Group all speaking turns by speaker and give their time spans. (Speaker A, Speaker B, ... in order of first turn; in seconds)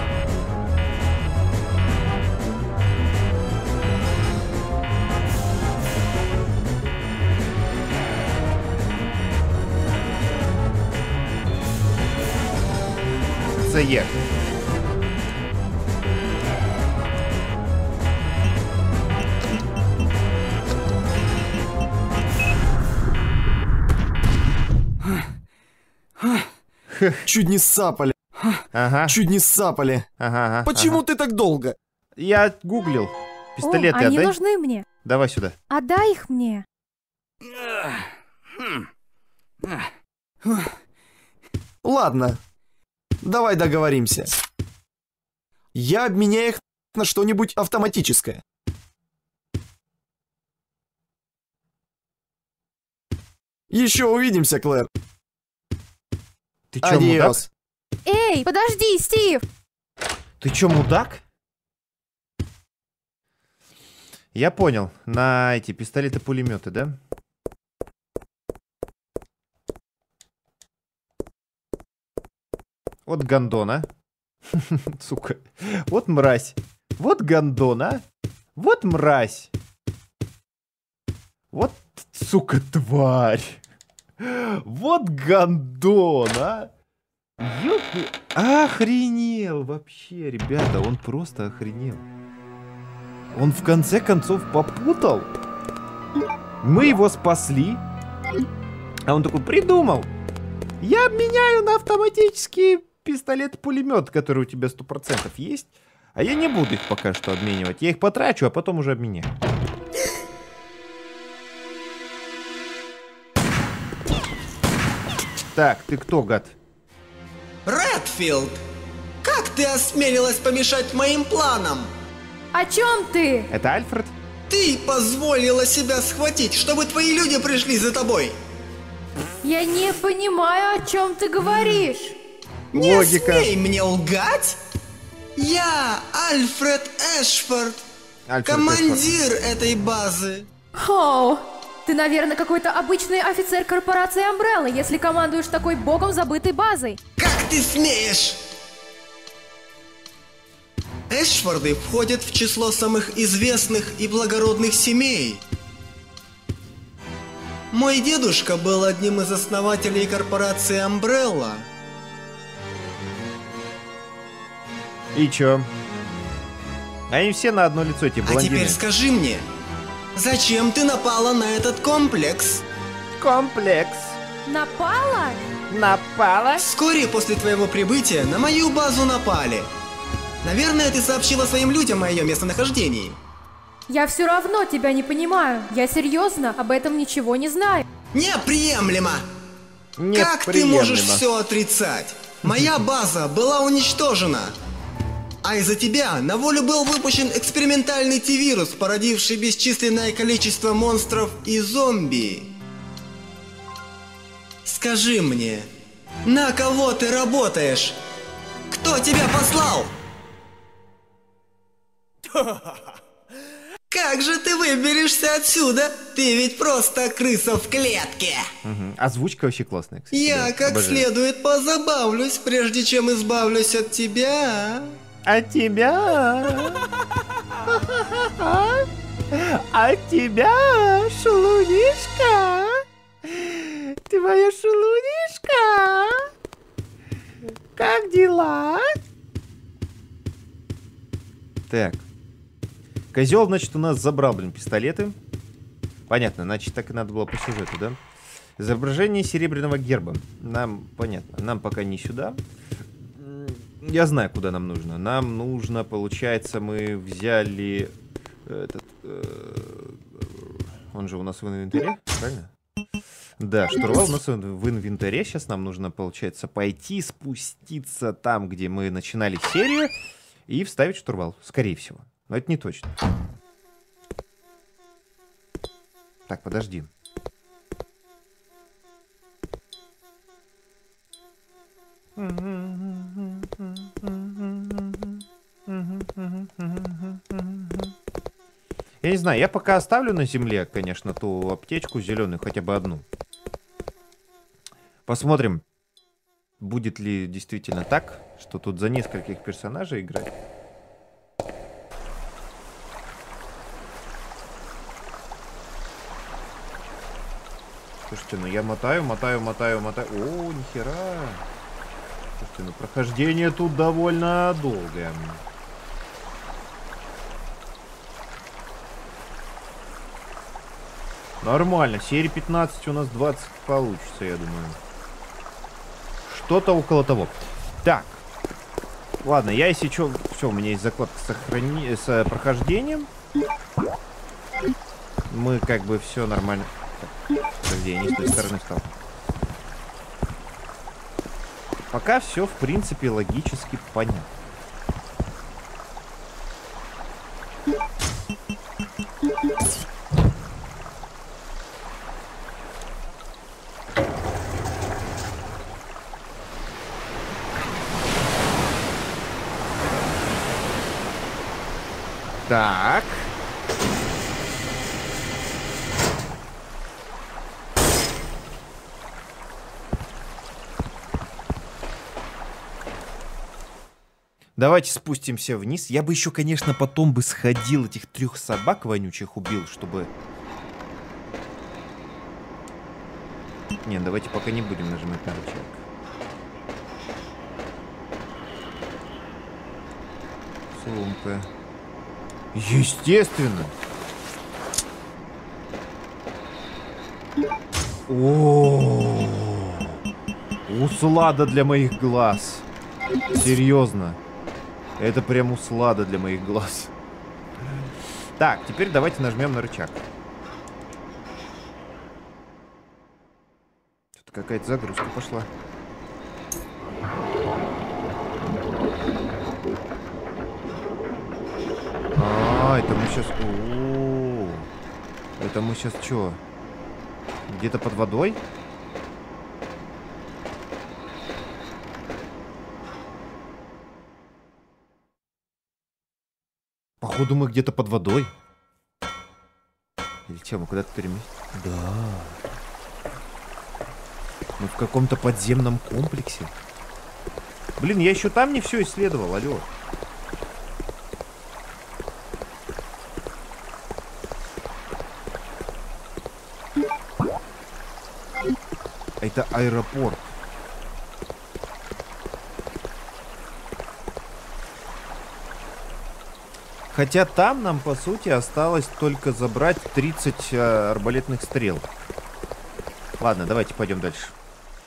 Speaker A: 13.6-14.2, 26.9-27.3, 28.7-29.2, 30.2-31.0, 32.2-34.4, 35.0-35.6, 56.7-57.4, 60.4-61.2, 64.3-67.0, 73.1-73.9, 74.5-78.0, 78.6-79.5, 81.5-83.6, 84.2-86.7, 87.4-92.0, 93.3-95.3, 96.6-97.8, 99.1-100.1, 100.8-109.3, 115.5-116.6, 123.5-124.1, 132.7-133.5, 138.3-139.1, 165.1-165.7, 167.1-168.8, 173.2-174.2, 175.7-176.7, 190.0-191.3, 218.6-221.1, 225.2-226.9, 227.6-236.3, 237.8-238.9, 241.7-242.1, 243.1-245.2, 246.1-248.0, 248.6-252.4, 253.2-257.9, 258.5-262.5, 263.4-269.9, 270.5-272.9, 276.3-276.9, 282.2-287.9, 289.0-293.1, 295.1-295.6, 296.6-300.4, 308.1-311.4, 312.4-315.4, 321.4-324.8, 326.2-328.2, 329.2-333.1, 335.3-338.9, 341.9-344.3, 362.5-363.3, 374.6-380.1, 383.8-385.9, 390.7-391.5, 392.5-393.8, 398.1-400.0, 400.7-402.7, 403.3-404.2, 405.0-406.9, 408.4-410.0, 414.2-415.5, 422.1-424.7, 425.4-426.4, 427.5-428.4, 437.0-438.3, 440.3-442.4, 444.6-446.5, 447.8-449.7, 459.2-460.4, 466.9-471.9, 473.2-474.4
Speaker B: 27.3-28.2, 29.1-30.1, 30.7-31.8, 41.8-42.4, 43.2-44.4, 45.8-48.4, 53.7-54.9, 56.8-57.5
Speaker C: 33.6-34.9, 35.7-36.6, 58.1-59.4, 122.5-123.5, 129.4-132.2, 140.8-147.0, 174.5-175.4, 183.9-187.8
Speaker D: 117.7-118.6, 119.2-121.9, 124.5-128.3, 132.7-134.6, 135.4-137.8, 138.4-140.5, 147.2-148.4, 151.1-155.4, 157.7-161.7, 168.2-169.4, 170.2-172.7, 176.6-179.7, 180.4-183.2, 188.1-189.2, 190.1-194.5, 195.4-202.5, 204.7-205.7, 206.2-208.0, 208.7-209.9, 213.9-218.5, 220.1-225.0